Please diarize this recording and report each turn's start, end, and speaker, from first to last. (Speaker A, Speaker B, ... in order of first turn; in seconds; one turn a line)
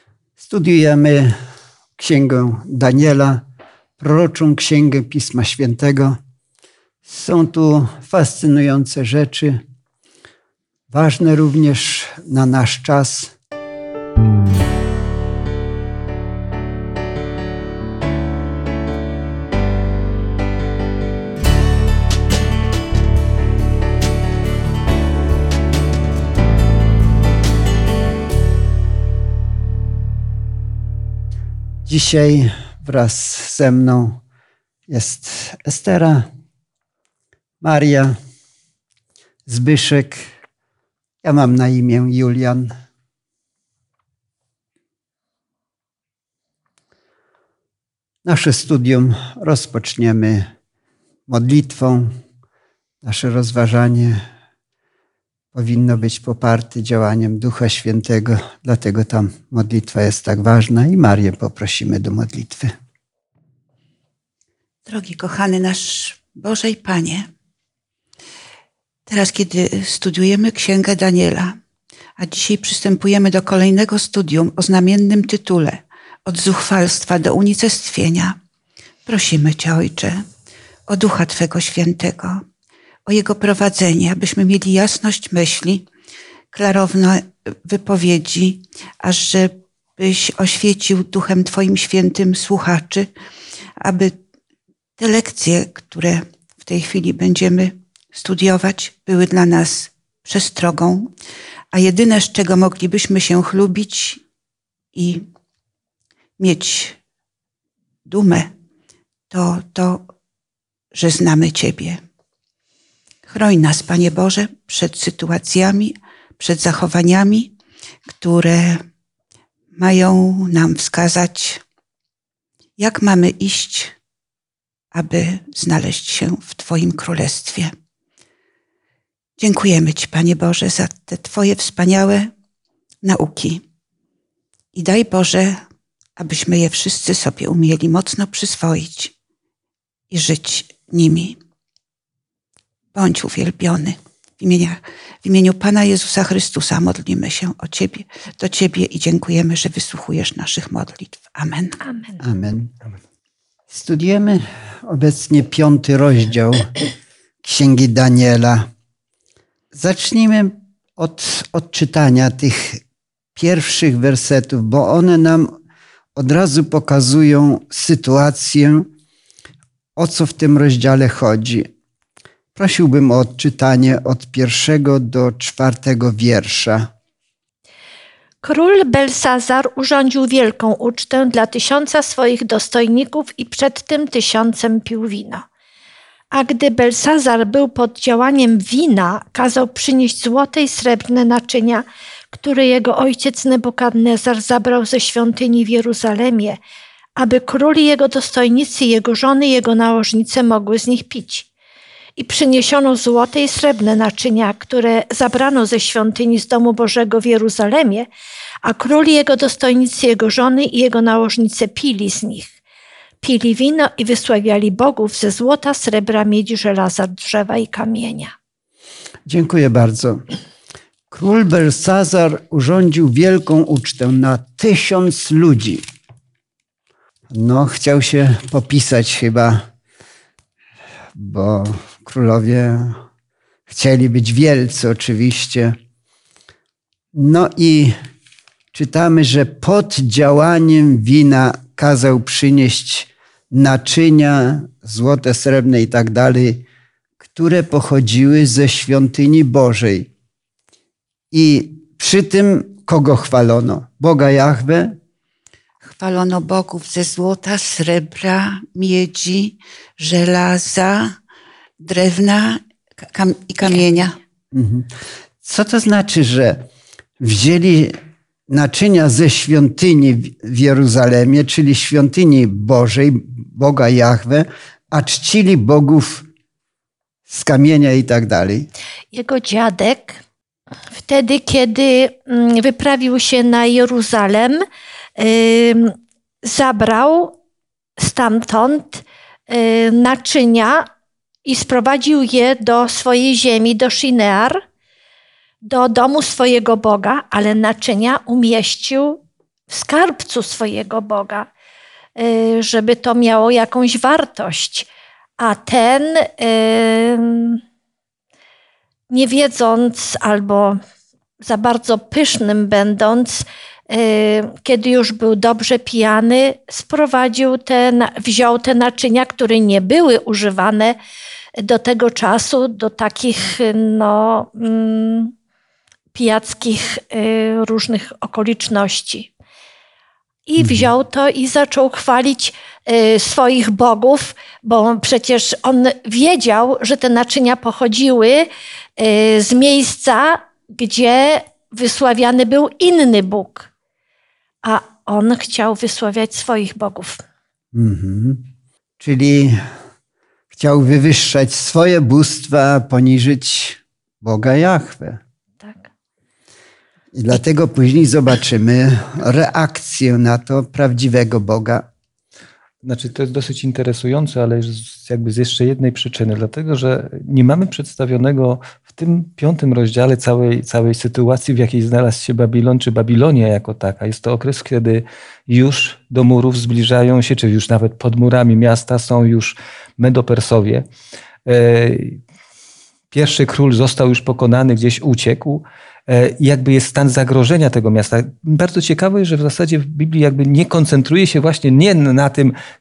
Speaker A: 0.4-1.4
Speaker A: 2.0-3.4
Speaker A: 4.0-6.2
Speaker A: 7.0-9.6
Speaker A: 10.9-13.3
Speaker A: 31.9-34.2
Speaker A: 34.9-36.3
Speaker A: 37.6-38.2
Speaker A: 39.5-40.3
Speaker A: 41.2-42.7
Speaker A: 48.2-50.5
Speaker A: 51.3-52.1
Speaker A: 53.0-54.2
Speaker A: 55.5-62.7
Speaker B: 64.9-67.3
Speaker B: 69.1-71.6
Speaker B: 72.2-78.4
Speaker B: 79.1-80.3
Speaker B: 80.9-82.4
Speaker B: 83.1-85.9
Speaker B: 86.5-93.1
Speaker B: 93.8-94.2
Speaker B: 95.0-101.1
Speaker B: 101.7-104.2
Speaker B: 105.0-105.3
Speaker B: 106.4-107.0
Speaker B: 108.1-108.5
Speaker B: 109.3-110.1
Speaker B: 110.9-112.0
Speaker B: 113.3-117.5
Speaker B: 118.1-118.8
Speaker B: 119.8-121.6
Speaker B: 122.8-123.9
Speaker B: 124.9-127.7
Speaker B: 129.4-132.3
Speaker B: 133.0-133.6
Speaker B: 134.7-135.6
Speaker B: 136.2-139.1
Speaker B: 140.1-141.4
Speaker B: 142.9-151.8
Speaker C: 151.9-152.2
Speaker A: 152.2-152.7
Speaker A: 153.7-156.8
Speaker A: 157.4-158.7
Speaker A: 159.7-162.8
Speaker A: 163.3-165.5
Speaker A: 166.2-168.9
Speaker A: 170.0-171.7
Speaker A: 172.6-176.9
Speaker C: 178.4-185.4
Speaker C: 186.3-196.6
Speaker C: 197.2-201.5
Speaker C: 202.2-208.1
Speaker C: 208.6-212.5
Speaker C: 213.2-218.3
Speaker A: 219.3-220.2
Speaker A: 221.1-225.8
Speaker A: 227.3-229.7
Speaker A: 231.2-233.0
Speaker A: 233.7-235.8
Speaker A: 237.1-237.9
Speaker A: 238.7-246.6
Speaker A: 247.2-250.1
Speaker A: 251.3-255.0
Speaker B: 255.8-261.1
Speaker B: 261.8-264.2
Speaker A: 264.5-264.9
Speaker A: 265.4-266.7
Speaker A: 267.2-268.0
Speaker A: 268.5-276.3
Speaker A: 277.3-278.7
Speaker C: 279.1-280.2
Speaker C: 280.9-284.6
Speaker C: 285.2-287.4
Speaker C: 288.0-290.9
Speaker C: 291.4-294.6
Speaker C: 295.6-299.2
Speaker C: 299.7-301.5
Speaker C: 302.2-304.9
Speaker C: 305.4-307.6
Speaker C: 309.1-310.8
Speaker C: 311.4-321.0
Speaker C: 321.6-325.3
Speaker C: 326.1-329.3
Speaker C: 330.5-343.7
Speaker A: 330.6-330.9
Speaker C: 344.6-347.2
Speaker A: 347.7-348.4
Speaker A: 349.0-349.6
Speaker A: 350.5-355.2
Speaker C: 355.6-355.9
Speaker A: 357.1-361.9
Speaker D: 362.8-380.9
Speaker D: 381.5-382.2
Speaker D: 383.1-392.5